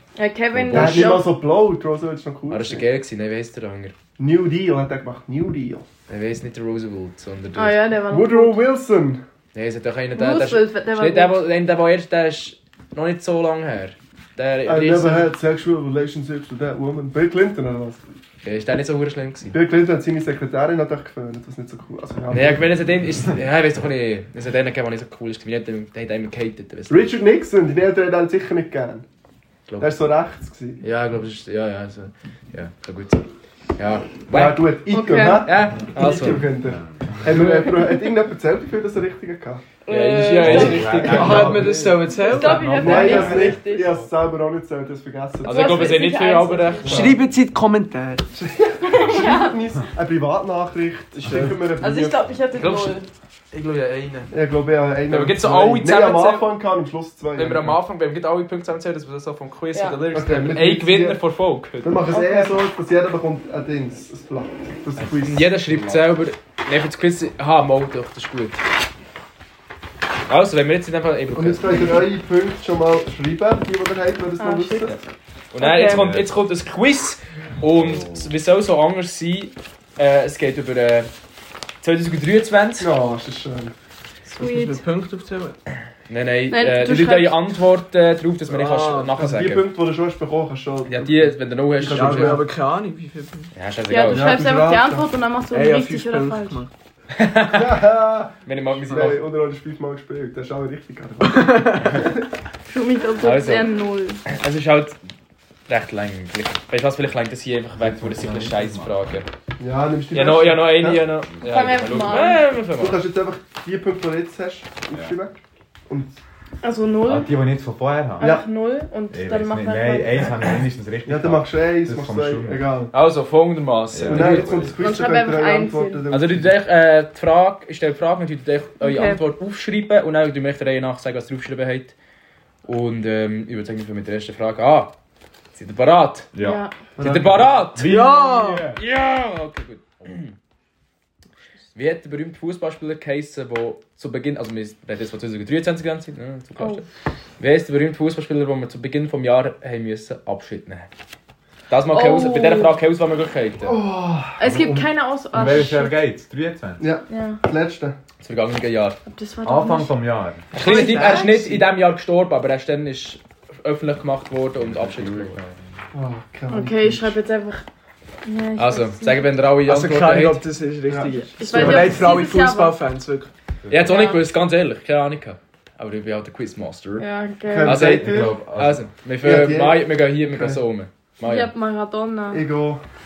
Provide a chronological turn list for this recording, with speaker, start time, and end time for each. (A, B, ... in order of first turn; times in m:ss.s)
0:00.2-0:01.3 A
0:00.6-0:01.2 B
0:00.7-0:02.9 C
0:02.5-0:03.9 B
0:04.2-0:05.9 C
0:06.1-0:07.8 B
0:07.5-0:08.7 A
0:08.1-0:09.2 C
0:09.5-0:15.3 B
0:10.1-0:11.4 A
0:14.6-0:18.0 C
0:18.4-0:19.5 B
0:19.5-0:22.7 C
0:22.3-0:27.1 B
0:26.9-0:29.0 C
0:29.8-0:30.8 C
0:30.8-0:33.2 B
0:33.8-0:34.8 B
0:34.3-0:39.6 C
0:34.9-0:35.5 A
0:35.4-0:36.5 B
0:36.6-0:37.3 D
0:39.8-0:41.3 A
0:39.9-0:41.8 B
0:40.4-0:44.0 D
0:40.9-0:42.8 E
0:42.1-0:44.0 A
0:42.7-0:46.0 C
0:45.4-0:47.0 A
0:45.4-0:47.2 B
0:46.8-0:47.2 C
0:46.8-0:48.3 E
0:48.4-0:52.3 C
0:48.8-0:49.6 A
0:51.1-0:51.7 E
0:51.8-0:53.1 A
0:52.5-0:53.0 B
0:53.5-0:54.3 B
0:54.3-0:57.8 C
0:55.1-0:56.5 B
0:57.3-1:02.2 B
0:59.7-1:00.0 A
1:00.1-1:01.2 C
1:01.8-1:05.5 C
1:02.1-1:02.6 A
1:05.2-1:08.6 B
1:05.6-1:06.0 D
1:10.3-1:12.0 B
1:11.3-1:15.0 C
1:14.4-1:14.9 A
1:15.5-1:21.1 B
1:15.6-1:16.0 A
1:15.8-1:16.3 D
1:17.6-1:18.3 D
1:21.8-1:22.9 B
1:22.8-1:23.7 C
1:24.3-1:25.6 E
1:24.4-1:24.8 A
1:26.1-1:29.7 B
1:26.5-1:27.4 A
1:28.5-1:29.1 E
1:29.1-1:32.5 C
1:30.9-1:32.4 B
1:31.9-1:33.5 E
1:33.5-1:34.4 B
1:33.9-1:36.6 A
1:34.1-1:35.1 C
1:35.5-1:36.7 E
1:37.1-1:37.8 B
1:37.5-1:42.1 C
1:38.4-1:39.2 B
1:38.9-1:39.2 E
1:41.3-1:41.8 E
1:42.7-1:44.2 A
1:43.2-1:43.7 B
1:44.2-1:45.0 B
1:45.7-1:49.3 B
1:47.8-1:49.0 D
1:49.6-1:51.1 C
1:50.1-1:53.0 B
1:51.4-1:52.5 A
1:51.5-1:52.1 D
1:52.7-1:56.2 C
1:56.6-1:57.3 A
1:57.0-1:58.3 D
1:58.2-2:00.6 A
1:58.2-1:58.4 C
1:59.1-2:02.7 D
2:01.0-2:02.9 C
2:02.9-2:04.8 B
2:03.9-2:04.8 D
2:04.0-2:06.5 C
2:04.8-2:06.0 A
2:06.1-2:11.9 B
2:08.8-2:09.2 A
2:12.6-2:14.9 B
2:15.5-2:16.3 B
2:16.3-2:16.6 D
2:16.4-2:16.7 A
2:17.0-2:17.8 C
2:17.0-2:18.0 B
2:17.7-2:18.8 D
2:17.8-2:18.8 E
2:18.8-2:20.4 B
2:21.7-2:26.8 B
2:26.6-2:26.8 A
2:27.4-2:30.9 B
2:31.7-2:33.8 B
2:31.9-2:32.7 A
2:33.6-2:34.4 C
2:34.4-2:36.0 A
2:34.4-2:36.8 D
2:36.8-2:38.0 C
2:37.1-2:37.4 A
2:38.2-2:39.0 B
2:39.0-2:39.9 A
2:39.4-2:40.5 D
2:40.5-2:45.4 B
2:40.6-2:41.4 E
2:40.7-2:41.2 A
2:44.6-2:45.8 D
2:45.9-2:47.2 C
2:46.5-2:47.6 A
2:48.2-2:49.3 A
2:48.6-2:50.5 B
2:49.6-2:53.3 E
2:50.9-2:52.1 C
2:51.3-2:52.8 A
2:53.6-2:53.9 D
2:53.7-2:57.1 B
2:53.8-2:54.2 A
2:57.0-2:57.8 A
2:57.5-2:58.4 C
2:57.6-3:01.5 B
2:57.8-2:58.9 D
2:59.2-3:00.6 C
3:01.2-3:02.4 A
3:02.3-3:02.8 C